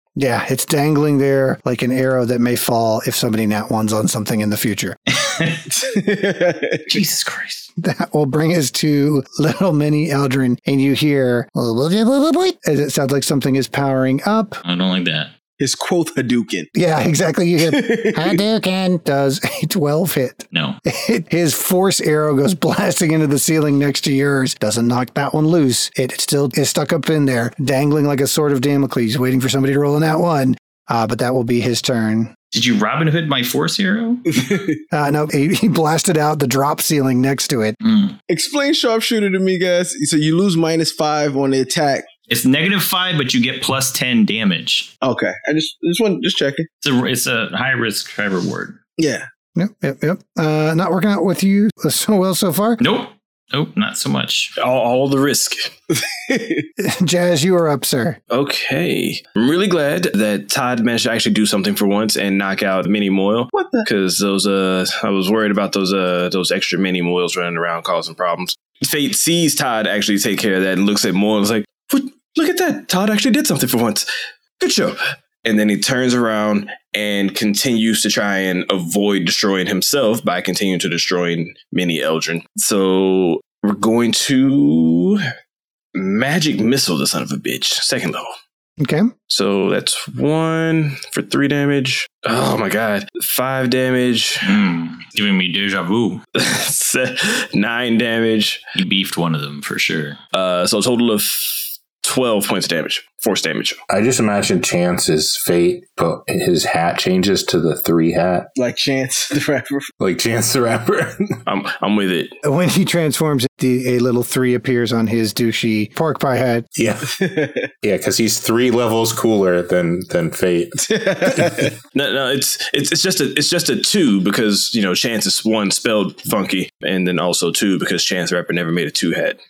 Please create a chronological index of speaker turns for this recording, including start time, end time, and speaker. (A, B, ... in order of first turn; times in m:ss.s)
0:00.2-0:05.0 A
0:05.1-0:05.6 B
0:05.7-0:06.9 C
0:06.9-0:07.7 B
0:07.8-0:14.6 A
0:14.6-0:15.3 B
0:15.6-0:16.7 C
0:16.7-0:32.3 A
0:17.6-0:18.4 C
0:20.5-0:20.8 B
0:32.5-0:34.4 B
0:34.3-0:34.8 C
0:34.9-0:37.8 A
0:37.8-0:38.2 B
0:38.3-0:42.1 C
0:42.3-0:44.9 B
0:45.0-0:46.7 C
0:46.8-0:48.8 B
0:49.0-0:49.2 C
0:49.6-0:52.8 A
0:52.8-0:54.5 B
0:54.6-0:55.7 D
0:55.9-0:56.6 C
0:56.8-0:58.2 A
0:58.3-1:14.0 D
1:03.5-1:03.9 C
1:14.6-1:25.3 D
1:25.9-1:28.3 D
1:28.8-1:29.1 A
1:29.3-1:34.6 D
1:34.4-1:36.2 B
1:36.4-1:38.6 D
1:38.8-1:40.2 B
1:40.3-1:43.8 D
1:43.9-1:48.5 E
1:48.6-1:49.9 C
1:50.0-1:51.3 E
1:51.5-1:52.3 D
1:52.4-1:56.6 A
1:56.8-1:57.2 E
1:57.1-1:57.7 C
1:57.8-2:00.9 E
2:00.8-2:01.7 C
2:01.9-2:09.4 D